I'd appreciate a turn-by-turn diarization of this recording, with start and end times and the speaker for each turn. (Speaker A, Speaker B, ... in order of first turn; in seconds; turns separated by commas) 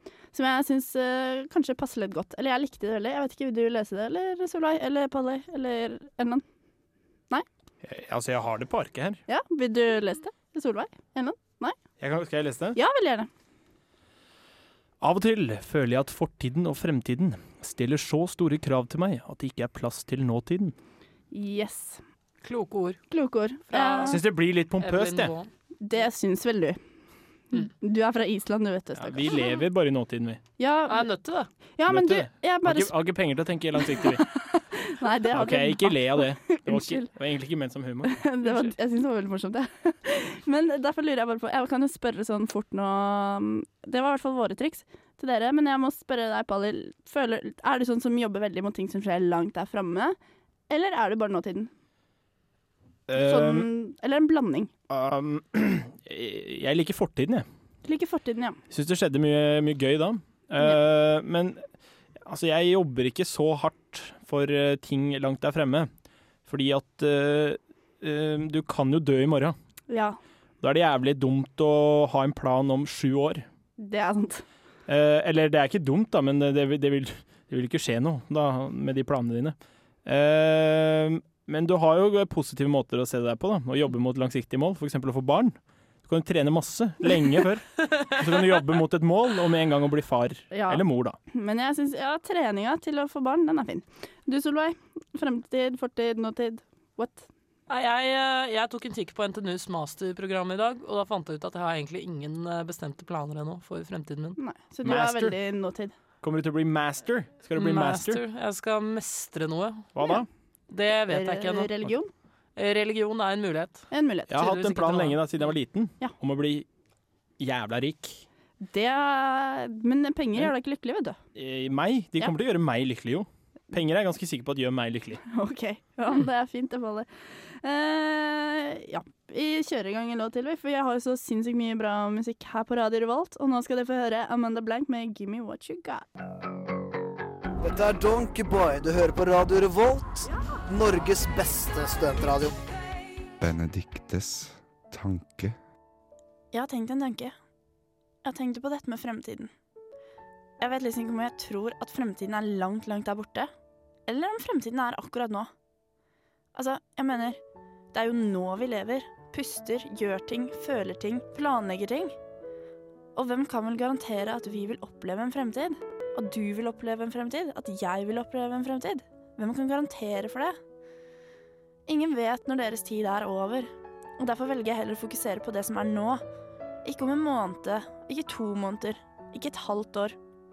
Speaker A: 0.3-6.4, Speaker B: 7.8-9.2, Speaker A: 9.3-11.8, Speaker B: 12.0-12.8, Speaker A: 12.8-13.3, Speaker B: 15.0-20.8, Speaker A: 21.3-22.0, Speaker C: 22.4-23.0, Speaker A: 23.1-24.2, Speaker C: 23.7-24.2, Speaker B: 24.1-25.3, Speaker C: 24.8-25.5, Speaker A: 25.8-26.8, Speaker A: 27.5-29.5, Speaker B: 29.0-30.4, Speaker A: 30.6-31.1, Speaker C: 30.9-31.5, Speaker A: 31.8-33.0, Speaker B: 31.9-34.3, Speaker A: 33.9-37.1, Speaker B: 35.3-38.2, Speaker A: 38.1-50.2, Speaker C: 38.5-38.7, Speaker A: 50.7-51.7, Speaker B: 53.1-53.7, Speaker A: 53.1-54.7, Speaker B: 54.9-57.5, Speaker A: 57.9-58.6, Speaker B: 58.7-61.6, Speaker B: 62.2-65.9, Speaker B: 66.5-69.6, Speaker A: 69.9-70.2, Speaker B: 70.6-73.5, Speaker A: 73.8-74.4, Speaker B: 74.9-91.2, Speaker A: 90.5-97.3, Speaker C: 97.7-104.4, Speaker A: 104.4-105.9, Speaker B: 104.8-105.4, Speaker B: 106.2-108.2, Speaker C: 107.6-109.9, Speaker B: 110.0-110.3, Speaker C: 110.7-111.9, Speaker A: 111.1-112.1, Speaker C: 112.6-115.3, Speaker A: 113.9-114.4, Speaker B: 114.3-116.7, Speaker B: 117.4-118.2, Speaker A: 118.6-121.2, Speaker B: 121.3-125.2, Speaker A: 125.3-127.1, Speaker A: 127.6-136.1, Speaker D: 137.6-142.6, Speaker E: 143.4-145.6, Speaker A: 146.5-147.3, Speaker A: 148.2-149.5, Speaker A: 150.6-153.5, Speaker A: 154.1-155.5, Speaker A: 156.6-157.4, Speaker A: 157.9-162.1, Speaker A: 163.2-170.5, Speaker A: 171.9-173.6, Speaker A: 174.2-176.2, Speaker A: 176.9-180.1